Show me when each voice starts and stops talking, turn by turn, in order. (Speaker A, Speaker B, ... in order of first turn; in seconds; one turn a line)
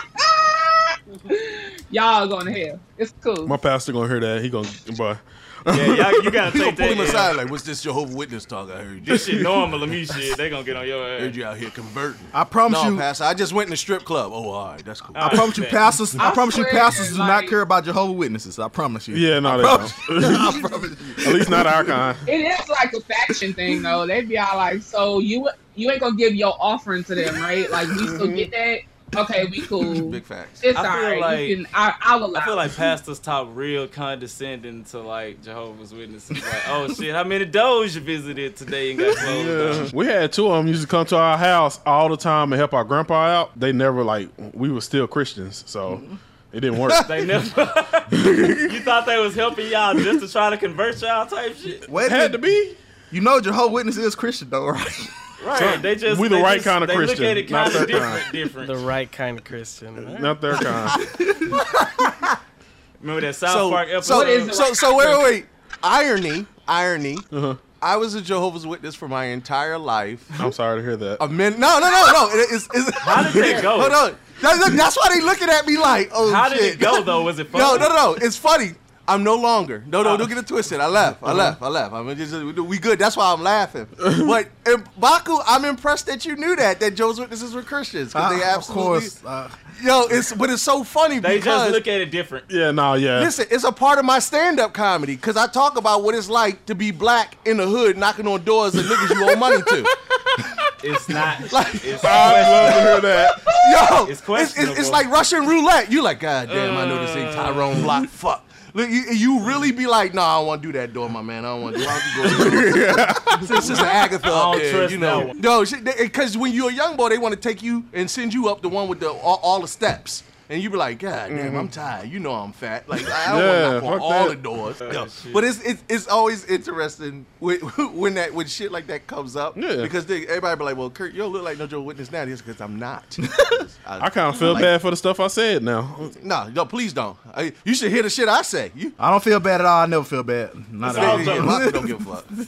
Speaker A: 0.2-3.5
Speaker B: 3.4-6.3
Speaker C: 5.7-7.3
Speaker D: 6.5-9.4
Speaker C: 9.1-11.3
Speaker D: 11.2-15.5
Speaker E: 12.3-13.0
Speaker C: 15.1-15.9
Speaker E: 15.2-22.0
Speaker A: 16.2-17.5
Speaker B: 19.1-20.6
Speaker B: 21.2-22.2
Speaker A: 22.2-32.6
Speaker B: 28.0-28.5
Speaker D: 29.9-30.6
Speaker C: 30.7-31.6
Speaker C: 32.3-39.9
Speaker B: 39.2-47.1
Speaker E: 45.9-46.1
Speaker C: 47.1-48.1
Speaker B: 48.1-48.7
Speaker C: 48.6-51.8
Speaker E: 51.9-52.4
Speaker B: 51.9-52.8
Speaker E: 53.1-55.1
Speaker C: 55.4-58.8
Speaker B: 55.5-58.2
Speaker F: 58.6-60.5
Speaker B: 60.0-61.0
Speaker E: 61.0-61.6
Speaker C: 63.0-64.6
Speaker D: 63.5-70.4
Speaker A: 64.1-65.3
Speaker B: 67.3-67.6
Speaker B: 70.4-71.2
Speaker D: 71.2-89.1
Speaker C: 73.0-74.0
Speaker C: 76.2-78.0
Speaker C: 80.0-80.3
Speaker E: 81.1-81.5
Speaker B: 84.0-84.3
Speaker E: 88.1-89.6
Speaker D: 89.7-91.8
Speaker C: 91.2-92.5
Speaker B: 92.5-93.3
Speaker D: 93.1-99.9
Speaker C: 100.8-102.8
Speaker D: 101.5-103.0
Speaker B: 102.0-103.4
Speaker D: 103.5-134.7
Speaker C: 104.0-105.0
Speaker C: 106.5-108.0
Speaker B: 112.2-113.8
Speaker C: 113.7-115.4
Speaker B: 121.3-121.7
Speaker B: 123.1-124.4
Speaker C: 124.8-125.4
Speaker B: 129.5-129.9
Speaker B: 134.0-136.1
Speaker D: 136.2-138.9
Speaker E: 139.0-142.0
Speaker C: 140.8-141.5
Speaker D: 140.8-142.3